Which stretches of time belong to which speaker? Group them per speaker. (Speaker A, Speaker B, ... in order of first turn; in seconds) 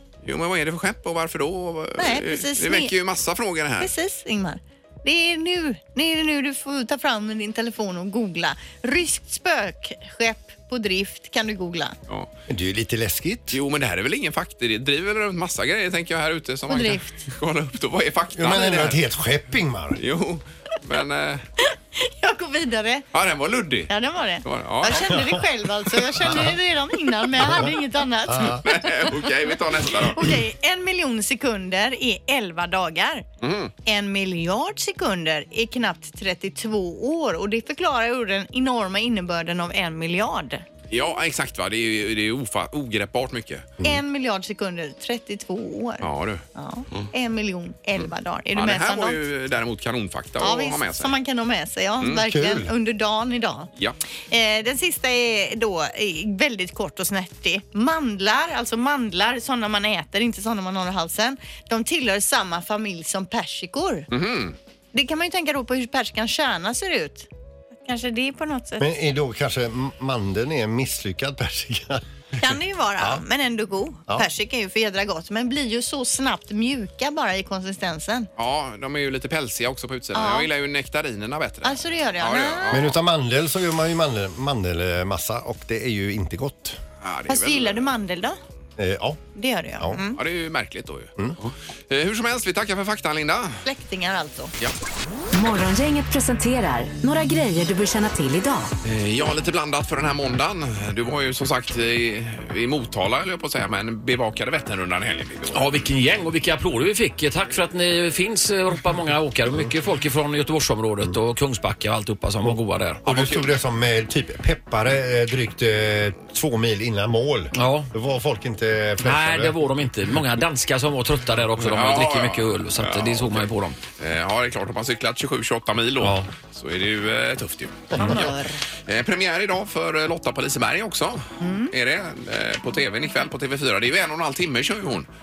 Speaker A: 0.2-3.9, 13.5-19.0, 19.9-21.4, 23.1-23.9, 24.4-25.2, 28.6-30.3, 33.4-33.7, 40.9-43.7, 46.0-46.4, 48.5-51.1, 64.1-64.6, 78.4-83.0, 87.0-87.8, 90.1-93.6, 98.8-105.6, 113.1-113.5, 121.7-128.3, 128.9-135.1
Speaker B: 2.0-2.9, 3.8-12.0, 16.7-17.2, 21.6-23.1, 23.9-28.6, 30.1-33.2, 33.8-40.6, 43.8-49.2, 50.4-53.7, 54.3-64.1, 64.9-68.9, 72.3-78.3, 80.1-80.5, 81.6-82.8, 87.3-88.4, 89.3-90.2, 93.6-94.5, 127.9-128.6, 131.4-131.7
Speaker C: 12.5-13.6, 18.3-20.0, 26.3-26.5, 27.4-27.7, 28.3-28.6, 52.2-52.7, 68.8-72.0, 82.7-86.8, 88.8-89.2, 112.4-119.5
Speaker D: 95.3-98.7
Speaker E: 105.5-113.0, 117.5-117.9, 119.0-123.8, 126.0-126.3